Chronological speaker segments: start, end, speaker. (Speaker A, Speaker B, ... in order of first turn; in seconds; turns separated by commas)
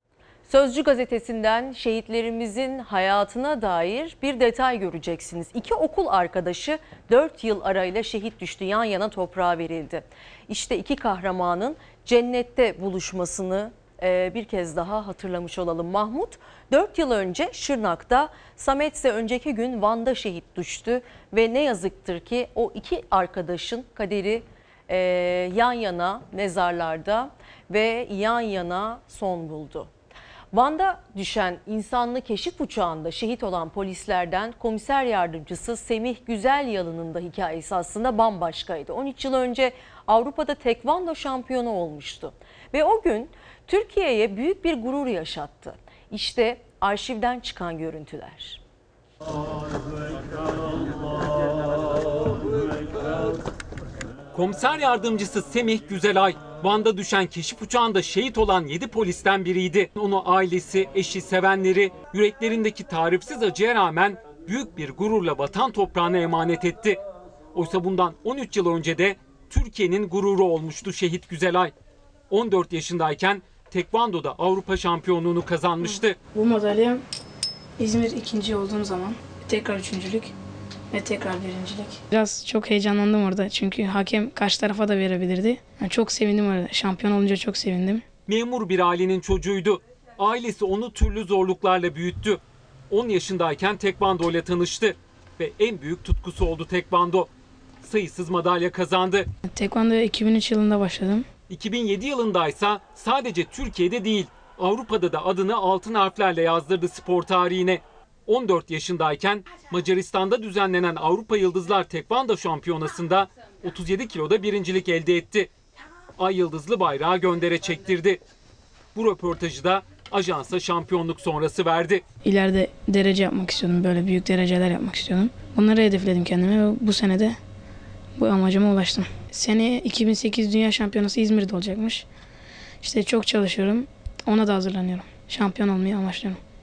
Speaker A: 0.5-29.9, Speaker A: 30.5-48.6, Speaker B: 54.3-67.0, Speaker B: 67.5-71.7, Speaker B: 72.3-76.2, Speaker C: 75.8-77.0, Speaker C: 77.8-80.3, Speaker C: 80.9-88.0, Speaker B: 88.3-97.3, Speaker B: 97.8-99.3, Speaker C: 99.5-101.3, Speaker B: 101.5-115.5, Speaker B: 116.2-118.2, Speaker B: 119.0-122.0, Speaker C: 122.2-127.4, Speaker C: 128.2-132.1, Speaker C: 132.8-136.4